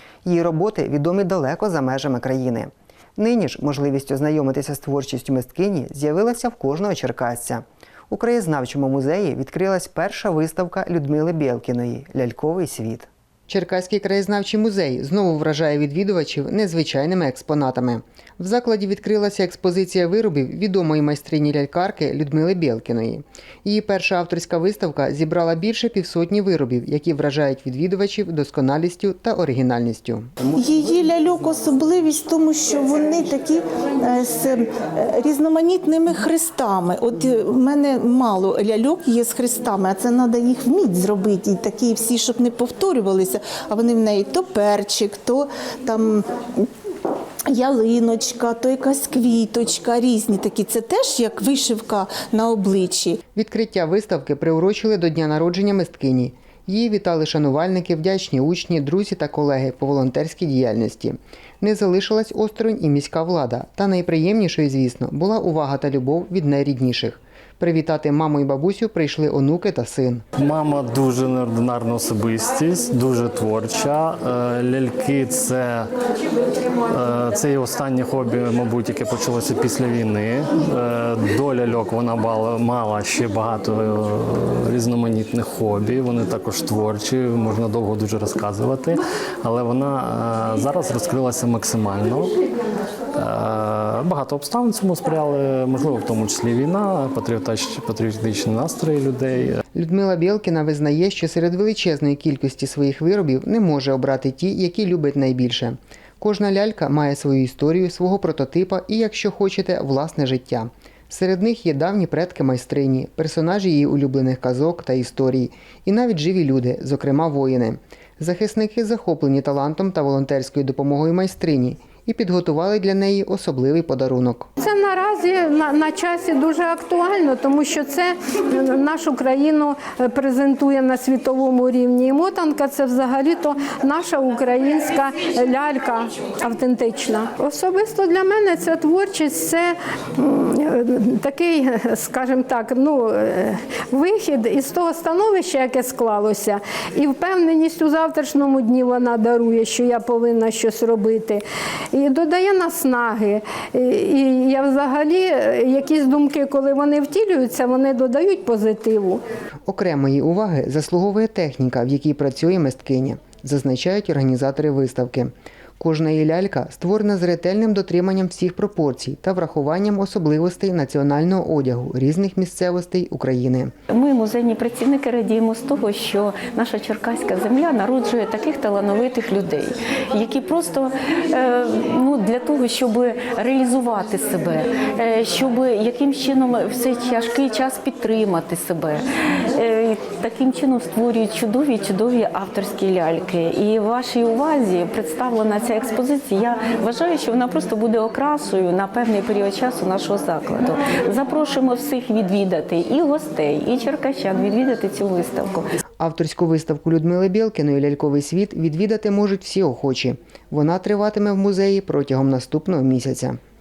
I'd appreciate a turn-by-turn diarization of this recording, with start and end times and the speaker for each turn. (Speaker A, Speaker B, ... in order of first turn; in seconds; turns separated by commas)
Speaker A: 0.2-30.3, Speaker B: 30.5-46.7, Speaker B: 47.5-53.2, Speaker A: 53.3-70.2, Speaker C: 70.4-75.9, Speaker C: 76.9-92.3, Speaker C: 93.2-99.6, Speaker A: 99.8-124.5, Speaker D: 124.6-151.4, Speaker D: 151.9-159.2, Speaker A: 159.7-173.7, Speaker E: 173.9-205.7, Speaker A: 206.0-213.4